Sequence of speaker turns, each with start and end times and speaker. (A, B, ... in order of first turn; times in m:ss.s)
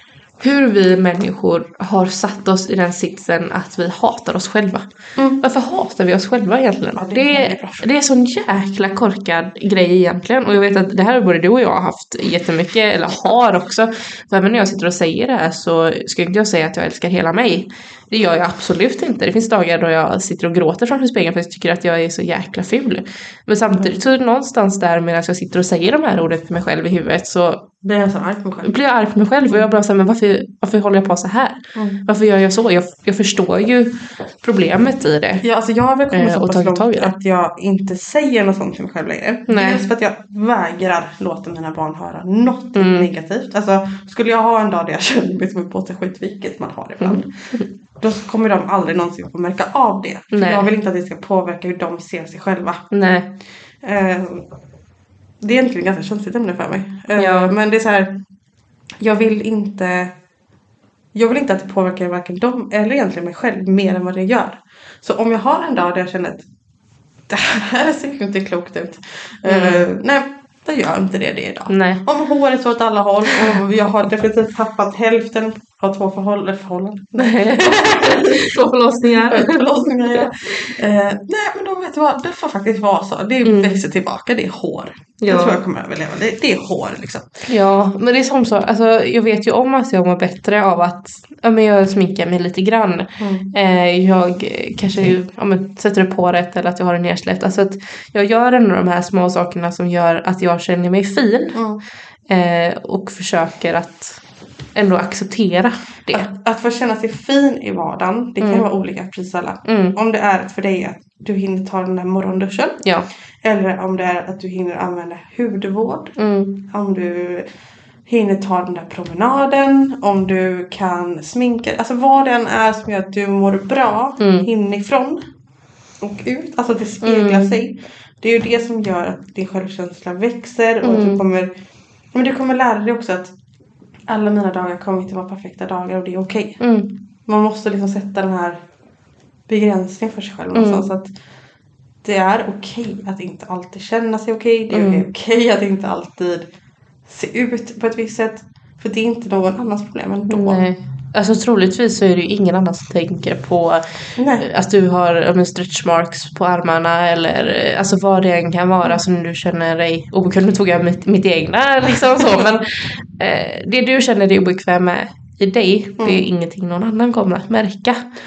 0:00.4-0:04.9 A
0:05.2-0:05.4 B
0:05.4-0:27.7 A
0:07.0-0:07.9 B
0:27.8-0:28.7 B
0:28.6-0:35.4 A
0:31.8-0:32.0 B
0:35.4-0:52.9 B
0:36.1-0:37.1 A
0:39.5-0:39.8 A
0:42.7-0:43.1 A
0:47.0-0:47.7 A
0:50.3-0:50.7 A
0:52.9-0:53.3 A
0:53.8-0:54.4 B
0:55.4-0:58.2 B
0:57.2-0:57.5 A
0:59.0-1:00.1 B
1:01.1-1:06.5 B
1:07.3-1:27.4 B
1:09.4-1:09.9 A
1:11.7-1:12.0 A
1:17.2-1:20.3 A
1:23.4-1:23.8 A
1:25.2-1:25.6 A
1:27.5-1:41.6 A
1:33.2-1:33.5 B
1:41.5-1:41.8 B
1:42.3-1:44.2 A
1:44.7-1:46.3 A
1:46.1-1:52.8 B
1:48.4-1:48.7 A
1:49.6-1:50.0 A
1:52.8-1:53.1 A
1:53.4-1:57.5 B
1:56.2-1:56.6 A
1:58.0-2:05.2 B
2:04.2-2:04.5 A
2:06.0-2:11.5 B
2:07.0-2:07.5 A
2:10.8-2:11.2 A
2:12.1-2:13.3 B
2:14.1-2:16.7 B
2:16.6-2:16.9 A
2:17.2-2:18.6 B
2:19.5-2:21.1 B
2:20.5-2:20.9 A
2:22.0-2:26.5 B
2:24.7-2:25.0 A
2:27.0-2:30.6 B
2:30.3-2:48.0 A
2:34.2-2:34.5 B
2:46.0-2:46.2 B